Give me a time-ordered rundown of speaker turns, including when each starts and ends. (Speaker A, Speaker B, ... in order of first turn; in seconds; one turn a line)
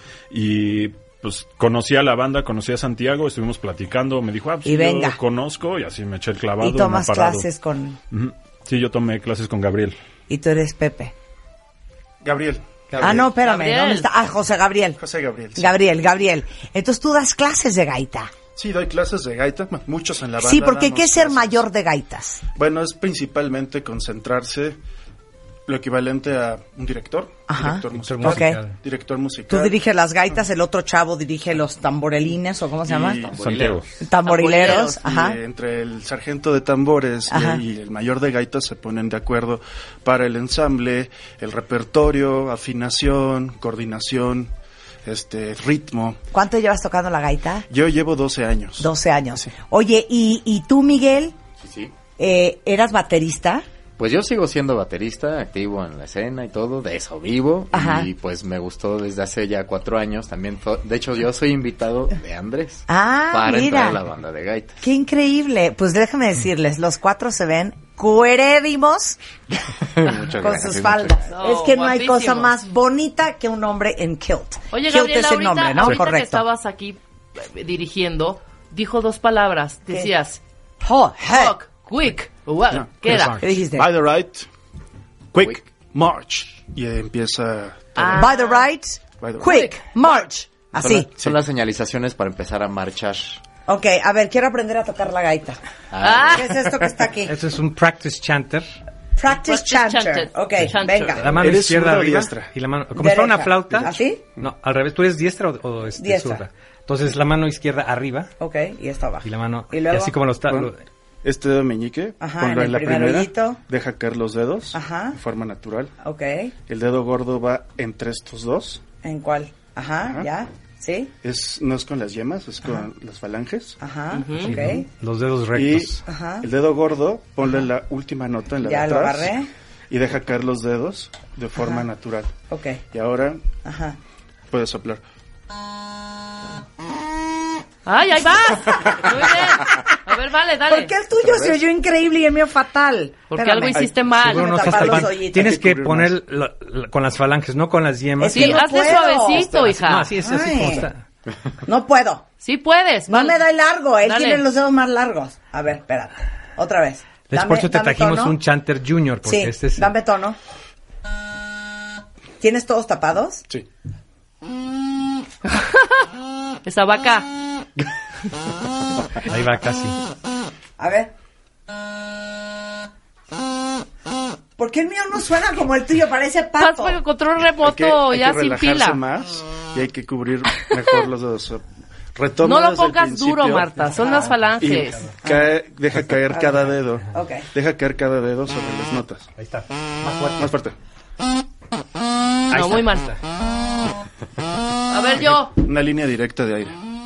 Speaker A: 0.3-7.5
Speaker B: 4.6-5.2
Speaker B: 6.6-8.0
Speaker A: 8.1-9.9
Speaker B: 10.3-11.1
Speaker C: 12.2-13.3
Speaker D: 12.9-13.2
Speaker B: 13.0-15.0
Speaker E: 13.4-14.1
Speaker C: 15.0-15.7
Speaker B: 15.6-18.3
Speaker C: 18.6-21.6
Speaker B: 20.4-22.4
Speaker C: 22.6-24.8
Speaker C: 25.6-29.8
Speaker B: 27.5-28.6
Speaker D: 27.9-28.7
Speaker B: 29.5-33.3
Speaker C: 32.8-44.5
Speaker F: 33.3-33.8
Speaker A: 33.4-33.8
Speaker B: 34.0-35.4
Speaker E: 34.2-34.9
Speaker B: 37.3-37.6
Speaker C: 45.0-46.2
Speaker B: 46.3-47.7
Speaker C: 47.7-49.5
Speaker B: 48.8-51.4
Speaker F: 51.6-51.9
Speaker B: 52.2-53.6
Speaker F: 54.0-64.9
Speaker B: 57.7-58.1
Speaker B: 62.9-64.0
Speaker B: 64.8-69.2
Speaker F: 69.8-71.3
Speaker B: 70.3-76.4
Speaker E: 71.3-72.5
Speaker E: 74.7-80.4
Speaker B: 80.8-81.5
Speaker E: 81.3-83.4
Speaker C: 82.7-84.5
Speaker D: 83.1-83.4
Speaker B: 83.4-83.9
Speaker C: 85.3-88.3
Speaker E: 88.0-88.7
Speaker B: 88.1-91.1
Speaker C: 89.2-89.7
Speaker E: 89.4-89.8
Speaker F: 90.8-93.4
Speaker B: 93.7-95.6
Speaker F: 95.9-96.5
Speaker E: 96.0-96.6
Speaker B: 96.3-97.3
Speaker D: 97.2-98.7
Speaker B: 99.2-101.4
Speaker E: 99.3-101.2
Speaker D: 101.2-108.3
Speaker C: 101.3-102.5
Speaker B: 103.0-104.2
Speaker C: 103.8-104.4
Speaker B: 106.0-106.4
Speaker B: 108.4-110.1
Speaker D: 109.2-110.8
Speaker C: 111.2-115.9
Speaker B: 112.2-113.6
Speaker B: 114.7-115.2
Speaker B: 116.0-116.5
Speaker C: 116.7-118.8
Speaker B: 119.0-121.1
Speaker C: 121.2-123.8
Speaker B: 123.8-124.9
Speaker E: 124.1-124.5
Speaker D: 124.4-126.0
Speaker C: 125.5-129.3
Speaker B: 126.0-126.5
Speaker B: 128.6-129.5
Speaker C: 129.9-132.3
Speaker B: 131.6-131.8
Speaker B: 132.5-132.8
Speaker C: 132.9-133.4
Speaker B: 133.6-134.0
Speaker C: 134.5-135.0
Speaker E: 137.9-140.9
Speaker B: 138.4-140.0
Speaker B: 140.7-145.6
Speaker C: 141.2-141.6
Speaker E: 143.3-144.7
Speaker C: 143.7-146.1
Speaker D: 144.3-148.9
Speaker B: 148.2-149.5
Speaker E: 148.3-150.1
Speaker C: 149.2-149.8
Speaker D: 149.5-151.0
Speaker B: 150.2-150.9
Speaker B: 151.6-152.2
Speaker E: 152.4-153.4
Speaker B: 153.1-158.4
Speaker E: 154.0-154.4
Speaker D: 157.3-159.9
Speaker B: 159.2-160.4
Speaker B: 162.4-163.4
Speaker E: 165.5-166.0
Speaker E: 166.6-167.3
Speaker D: 169.2-170.0
Speaker B: 170.8-171.1
Speaker B: 174.6-177.0
Speaker E: 176.6-179.0
Speaker C: 177.6-181.6
Speaker C: 182.1-189.3
Speaker E: 182.4-185.0
Speaker D: 183.8-185.1
Speaker B: 185.2-185.6
Speaker B: 187.1-187.5
Speaker D: 189.4-190.5
Speaker C: 190.4-190.8
Speaker D: 192.5-193.2
Speaker E: 192.5-193.1
Speaker E: 194.9-195.6
Speaker C: 195.5-196.8